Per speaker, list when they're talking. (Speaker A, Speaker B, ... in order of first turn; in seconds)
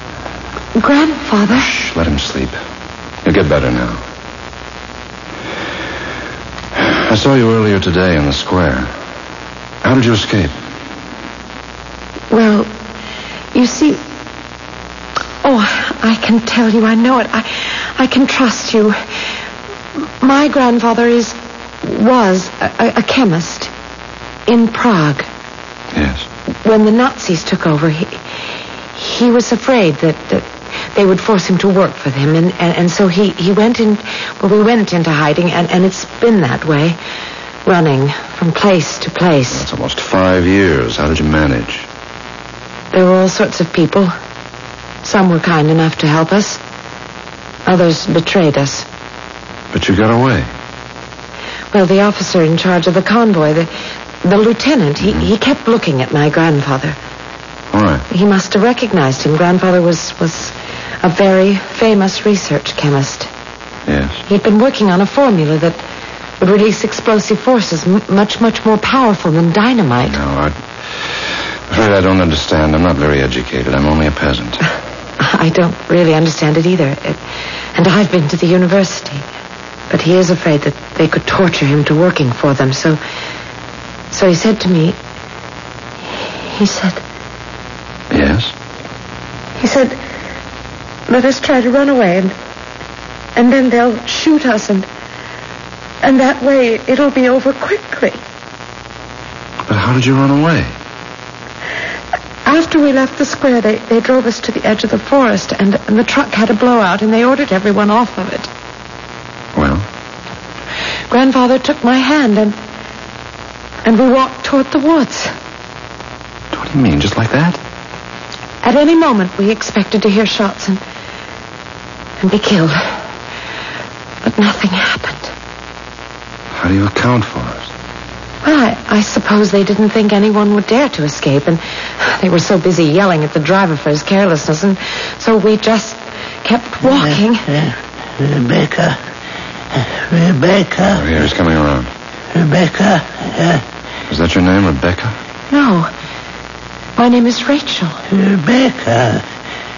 Speaker A: 0.8-1.3, 12.3-12.7, 13.6-14.0, 15.4-19.0, 20.2-23.7, 24.5-25.2, 26.6-28.2, 29.0-37.0, 37.6-39.6, 42.9-44.1, 45.0-46.6, 47.7-48.8, 51.7-53.7, 54.2-57.0, 58.1-63.3, 64.3-65.8, 66.4-70.2, 75.2-77.2, 77.8-79.2, 79.9-83.0, 84.1-85.0, 86.5-87.0, 89.6-89.9, 91.1-92.3, 93.4-94.8, 96.0-98.1, 102.5-108.5, 111.1-112.5, 113.9-115.3, 118.6-120.8, 122.2-122.8, 124.3-125.3, 128.4-137.4, 145.5-145.9, 147.0-147.9
Speaker B: 1.5-2.6, 3.2-4.0, 6.8-8.9, 9.8-10.5, 25.9-26.3, 39.5-41.9, 49.7-50.5, 55.0-55.3, 57.7-58.1, 63.9-64.2, 70.0-74.6, 88.1-88.5, 99.7-100.7, 109.5-109.9, 116.5-117.6, 126.5-127.7, 140.9-141.9, 144.1-145.2
Speaker C: 136.8-139.0, 139.7-141.1, 142.3-143.6, 148.1-149.2